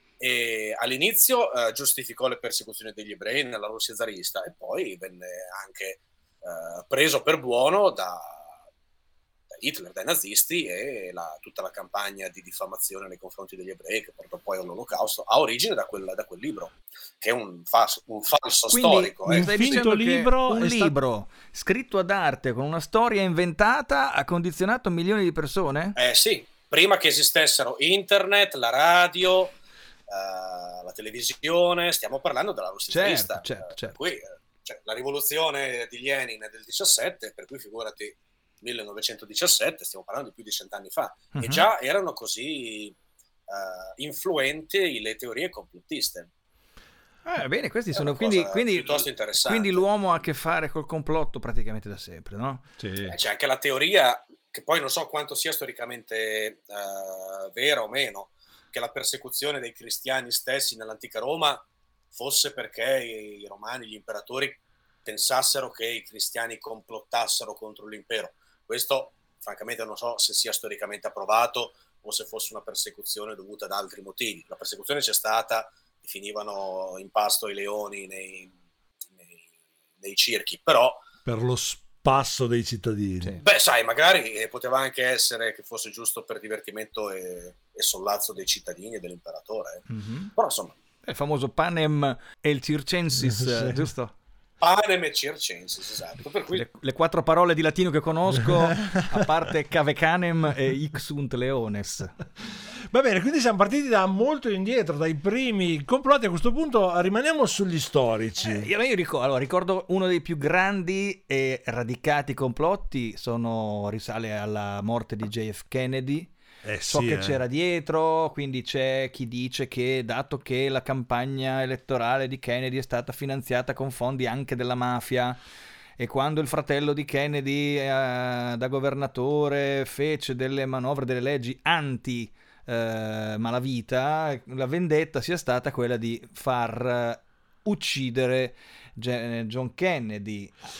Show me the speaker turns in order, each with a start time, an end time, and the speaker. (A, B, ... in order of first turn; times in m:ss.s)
0:00.2-0:08.5 A
0:09.5-0:19.5 A
0:18.7-0:26.0 B
0:19.3-0:21.0 C
0:26.0-0:29.5 A
0:30.1-0:43.0 A
0:32.9-0:34.0 B
0:41.3-0:41.6 B
0:43.5-0:46.3 A
0:47.2-0:53.1 B
0:47.9-0:49.8 A
0:52.8-0:53.1 C
0:53.1-1:18.5 A
1:20.0-1:21.0 A
1:21.2-1:23.4 C
1:23.4-1:30.7 A
1:29.9-1:30.3 B
1:31.0-1:34.1 B
1:33.2-1:33.8 C
1:34.6-1:36.6 A
1:36.5-1:42.1 B
1:38.8-1:39.2 C
1:42.9-1:48.7 C
1:48.4-1:56.3 B
1:56.6-1:57.4 C
1:56.9-2:05.4 B
2:06.0-2:20.6 B